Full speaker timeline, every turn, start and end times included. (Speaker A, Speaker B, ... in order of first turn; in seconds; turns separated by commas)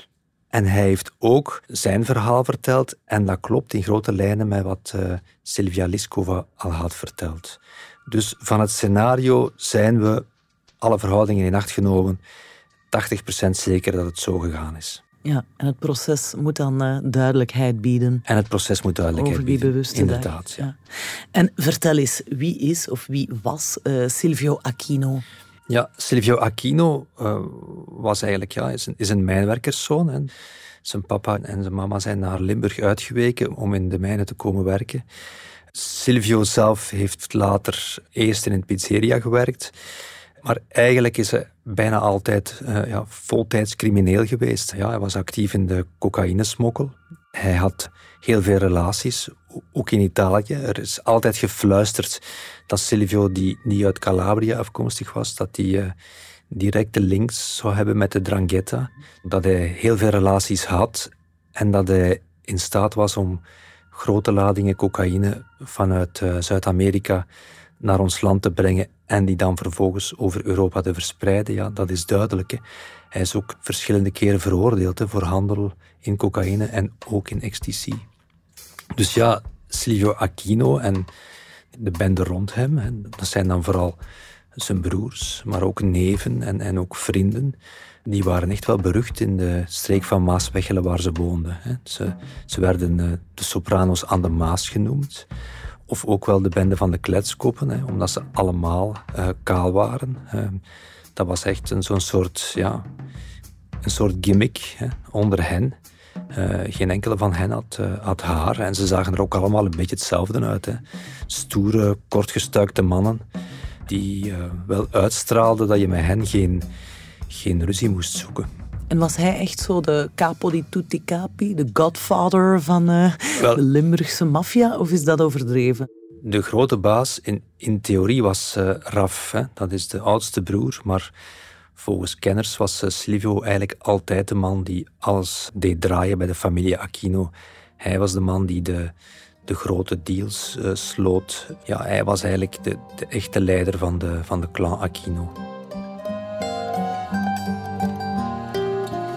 Speaker A: 0.5-10.3, Speaker A: 10.8-12.2, Speaker A: 12.9-15.0, Speaker B: 15.2-18.2, Speaker A: 18.3-20.7, Speaker B: 19.1-20.8, Speaker B: 21.3-25.2, Speaker A: 25.7-30.3, Speaker A: 30.8-35.0, Speaker A: 35.7-39.7, Speaker A: 40.4-55.9, Speaker A: 56.5-67.3, Speaker A: 67.8-72.6, Speaker A: 73.1-78.1, Speaker A: 79.0-81.1, Speaker A: 81.7-84.0, Speaker A: 84.6-95.3, Speaker A: 95.9-100.6, Speaker A: 101.2-102.9, Speaker A: 103.8-105.8, Speaker A: 106.3-113.2, Speaker A: 113.9-116.7, Speaker A: 117.3-118.5, Speaker B: 118.9-125.9, Speaker A: 123.3-123.6, Speaker A: 126.2-131.1, Speaker A: 131.8-138.9, Speaker A: 139.5-145.3